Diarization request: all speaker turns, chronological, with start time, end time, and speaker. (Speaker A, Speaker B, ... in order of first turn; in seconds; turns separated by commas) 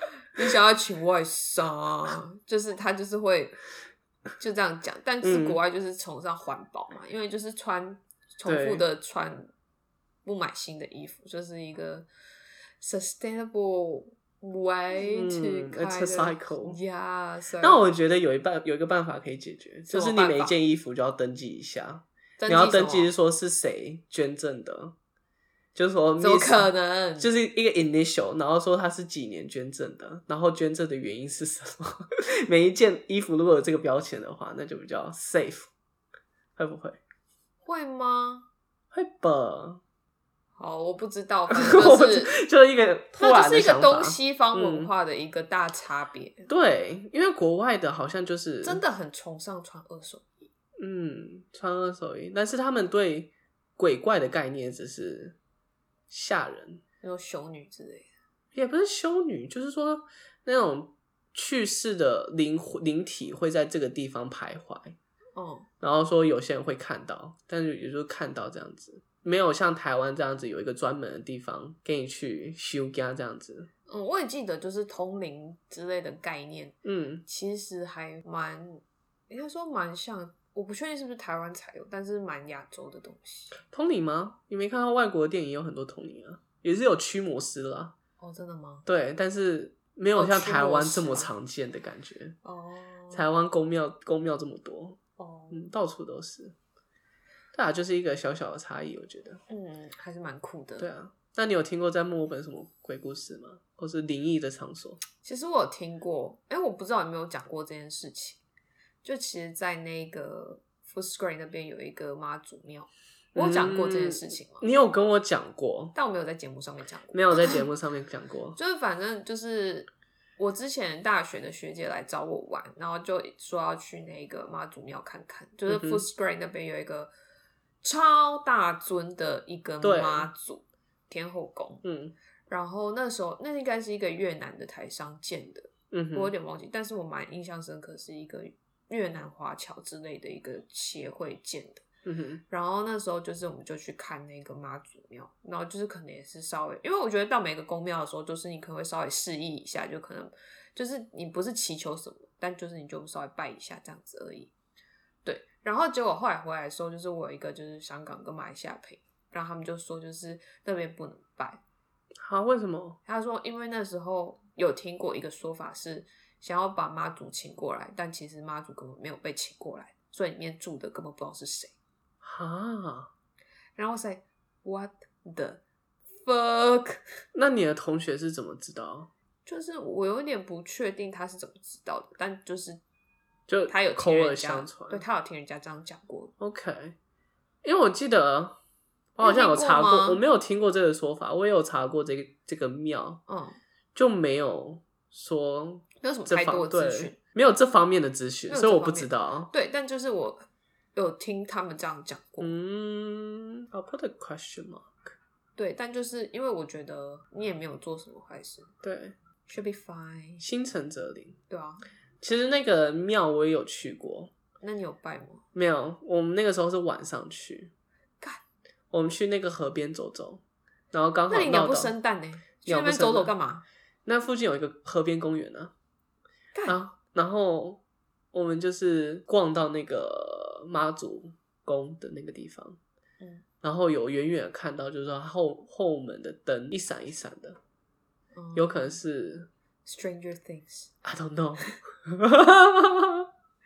Speaker A: 0.3-3.6, Speaker A: 4.4-9.5, Speaker B: 5.2-5.6, Speaker B: 8.4-8.8, Speaker A: 10.2-12.1, Speaker A: 12.8-17.8, Speaker B: 14.9-16.8, Speaker B: 17.6-24.9, Speaker A: 19.9-20.5, Speaker A: 22.4-23.1, Speaker B: 25.7-35.7, Speaker A: 26.2-27.3, Speaker B: 36.5-37.0, Speaker A: 37.6-38.5, Speaker B: 38.9-39.8, Speaker A: 40.6-42.4, Speaker B: 41.5-44.9, Speaker A: 43.2-46.5, Speaker B: 46.5-48.8, Speaker A: 48.6-50.5, Speaker B: 50.8-55.4, Speaker B: 56.1-56.8, Speaker A: 57.0-58.1, Speaker B: 58.5-65.0, Speaker A: 65.3-65.7, Speaker B: 65.8-73.7, Speaker A: 73.9-83.5, Speaker B: 76.8-77.2, Speaker B: 83.6-87.9, Speaker A: 88.2-88.8, Speaker B: 88.8-92.4, Speaker A: 90.1-91.3, Speaker A: 92.4-93.2, Speaker B: 93.1-95.0, Speaker A: 95.2-95.7, Speaker B: 95.5-96.5, Speaker B: 97.5-99.4, Speaker A: 99.5-100.9, Speaker B: 100.8-105.0, Speaker A: 105.2-108.4, Speaker A: 109.0-114.7, Speaker B: 113.3-116.0, Speaker A: 115.9-117.6, Speaker B: 117.1-118.6, Speaker A: 118.5-127.1, Speaker B: 125.7-126.0, Speaker A: 127.8-131.8, Speaker B: 129.8-130.3, Speaker B: 131.8-132.1, Speaker A: 132.5-141.8, Speaker B: 135.9-136.3, Speaker B: 142.0-142.4, Speaker A: 142.5-154.5, Speaker A: 155.2-161.6, Speaker B: 162.2-163.0, Speaker A: 163.0-171.7, Speaker B: 172.2-173.1, Speaker A: 173.8-175.6, Speaker A: 176.1-177.0, Speaker B: 177.3-179.1, Speaker A: 179.4-182.8, Speaker B: 183.5-185.0, Speaker A: 183.7-186.3, Speaker B: 186.4-186.9, Speaker B: 187.6-188.6, Speaker B: 189.2-193.2, Speaker A: 189.2-190.2, Speaker A: 193.3-193.6, Speaker B: 193.9-199.5, Speaker A: 196.0-197.2, Speaker A: 198.5-202.5, Speaker B: 202.4-205.1, Speaker A: 205.6-208.7, Speaker B: 208.8-209.1, Speaker A: 209.5-210.4, Speaker B: 210.4-211.4, Speaker A: 211.5-211.8, Speaker B: 212.2-214.3, Speaker A: 214.6-215.4, Speaker B: 215.5-217.7, Speaker B: 218.9-221.9, Speaker A: 221.3-223.6, Speaker B: 222.6-223.3, Speaker B: 224.1-225.7, Speaker B: 226.7-227.8, Speaker B: 228.3-232.8, Speaker B: 233.6-237.6, Speaker A: 238.3-238.9, Speaker B: 238.5-239.5, Speaker A: 239.8-240.9, Speaker B: 241.0-243.3